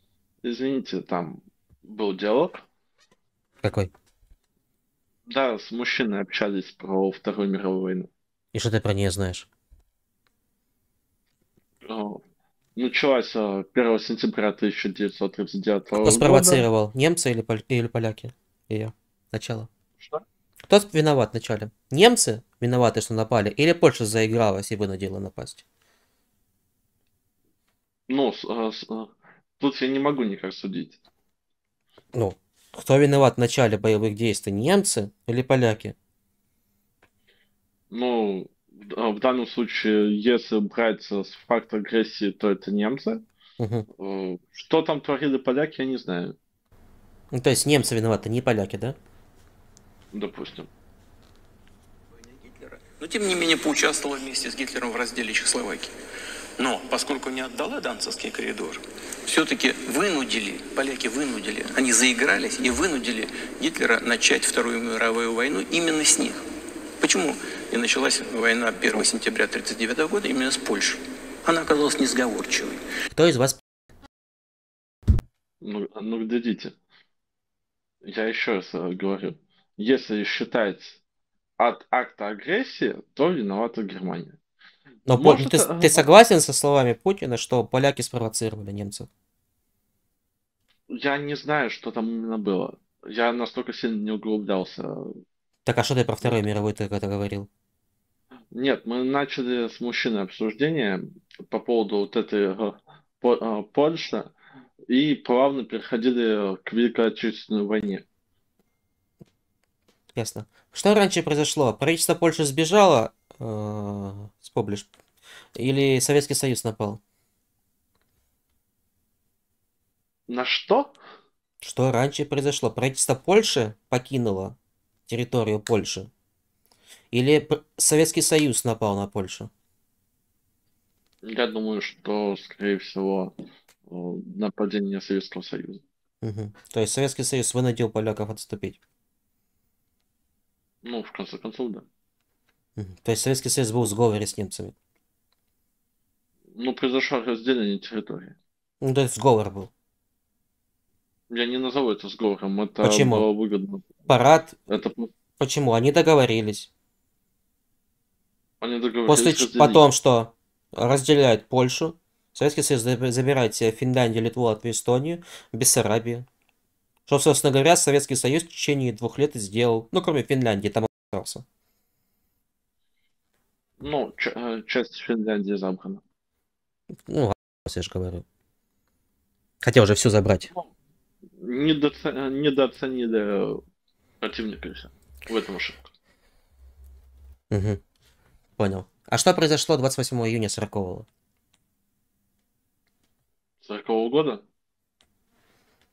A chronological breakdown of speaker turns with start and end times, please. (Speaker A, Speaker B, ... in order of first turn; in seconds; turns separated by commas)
Speaker A: 0.4-2.6, Speaker B: 3.6-3.9, Speaker A: 5.3-8.1, Speaker B: 8.5-9.5, Speaker A: 11.9-12.2, Speaker A: 12.8-16.7, Speaker B: 16.0-19.7, Speaker A: 20.0-20.2, Speaker B: 20.7-25.6, Speaker A: 28.1-31.0, Speaker B: 32.1-36.0, Speaker A: 37.9-43.2, Speaker B: 43.6-43.9, Speaker A: 44.0-46.3, Speaker B: 47.3-49.0, Speaker A: 50.1-50.7, Speaker C: 52.4-55.9, Speaker C: 56.6-66.4, Speaker C: 67.0-72.8, Speaker B: 73.1-73.6, Speaker A: 75.6-76.7, Speaker A: 78.0-81.0, Speaker A: 81.6-84.4, Speaker B: 85.0-89.1, Speaker A: 85.1-86.1, Speaker A: 90.9-95.1, Speaker B: 95.7-97.5, Speaker A: 98.5-104.3, Speaker A: 104.9-108.0, Speaker B: 110.2-114.9, Speaker B: 115.6-117.0, Speaker A: 120.3-121.0, Speaker B: 121.6-124.5, Speaker B: 125.1-126.1, Speaker B: 127.1-129.5, Speaker A: 131.2-133.3, Speaker A: 133.9-135.8, Speaker B: 136.2-138.8, Speaker A: 140.8-141.9, Speaker B: 142.8-144.8, Speaker A: 146.6-148.3, Speaker B: 148.8-149.7, Speaker A: 151.3-154.1, Speaker B: 152.8-153.3, Speaker B: 154.1-154.7, Speaker A: 154.7-155.1, Speaker B: 155.4-156.7, Speaker A: 158.6-159.9, Speaker B: 159.1-166.3, Speaker B: 167.1-171.4, Speaker A: 173.8-176.0, Speaker B: 177.1-178.2, Speaker B: 179.6-180.5, Speaker A: 181.4-183.6, Speaker A: 184.2-185.9, Speaker B: 187.5-187.8, Speaker B: 188.6-191.1, Speaker A: 193.6-194.4